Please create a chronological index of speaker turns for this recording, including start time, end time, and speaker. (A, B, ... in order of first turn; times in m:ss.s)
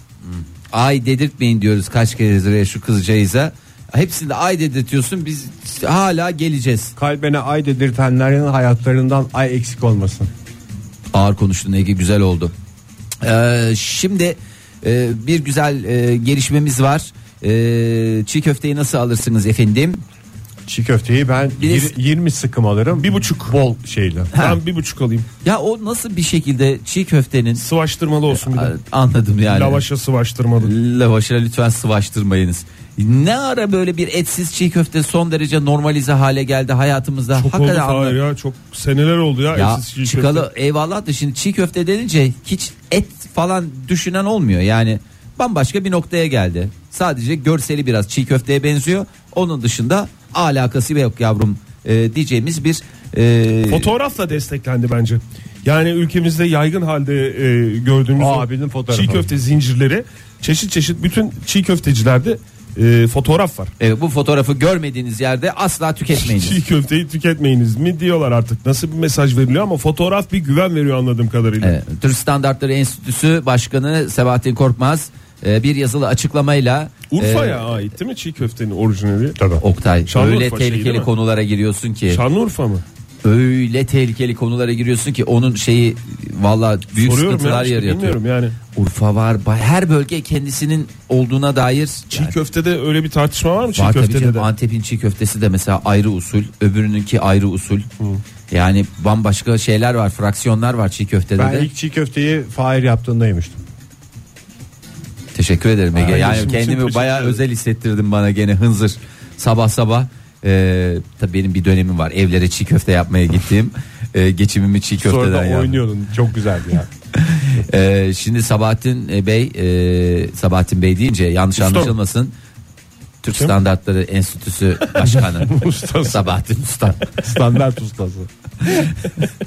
0:00.2-0:06.9 A
0:07.0-0:10.3 B
0:11.1-0:12.5 A
0:13.2-0:20.0 A
0:20.6-0:24.3 B
0:21.6-0:21.9 A
0:23.0-0:23.6 C
0:24.3-0:25.2 C
0:25.4-0:27.6 A
0:27.6-0:28.7 C
0:28.3-0:29.8 A
0:29.4-0:30.7 C
0:30.6-0:38.2 A
0:37.3-0:40.5 C
0:39.5-0:53.9 A
0:53.7-1:03.7 C
0:58.2-0:59.3 B
1:03.8-1:06.6 A
1:06.1-1:11.8 C
1:11.6-1:17.7 A
1:17.1-1:19.4 C
1:19.4-1:19.6 B
1:19.6-1:22.2 A
1:20.1-1:21.1 C
1:22.1-1:22.8 C
1:23.2-1:28.2 A
1:27.0-1:28.6 C
1:28.7-1:32.3 A
1:32.1-1:34.5 C
1:33.8-1:37.9 A
1:38.5-1:41.7 A
1:41.4-1:43.6 B
1:45.3-1:55.8 A
1:45.9-1:47.3 B
1:46.1-1:46.6 C
1:55.0-1:56.9 B
1:57.2-2:02.3 A
2:01.6-2:01.9 C
2:03.2-2:07.0 A
2:05.0-2:05.3 C
2:05.4-2:06.4 B
2:07.2-2:08.3 B
2:08.6-2:09.0 A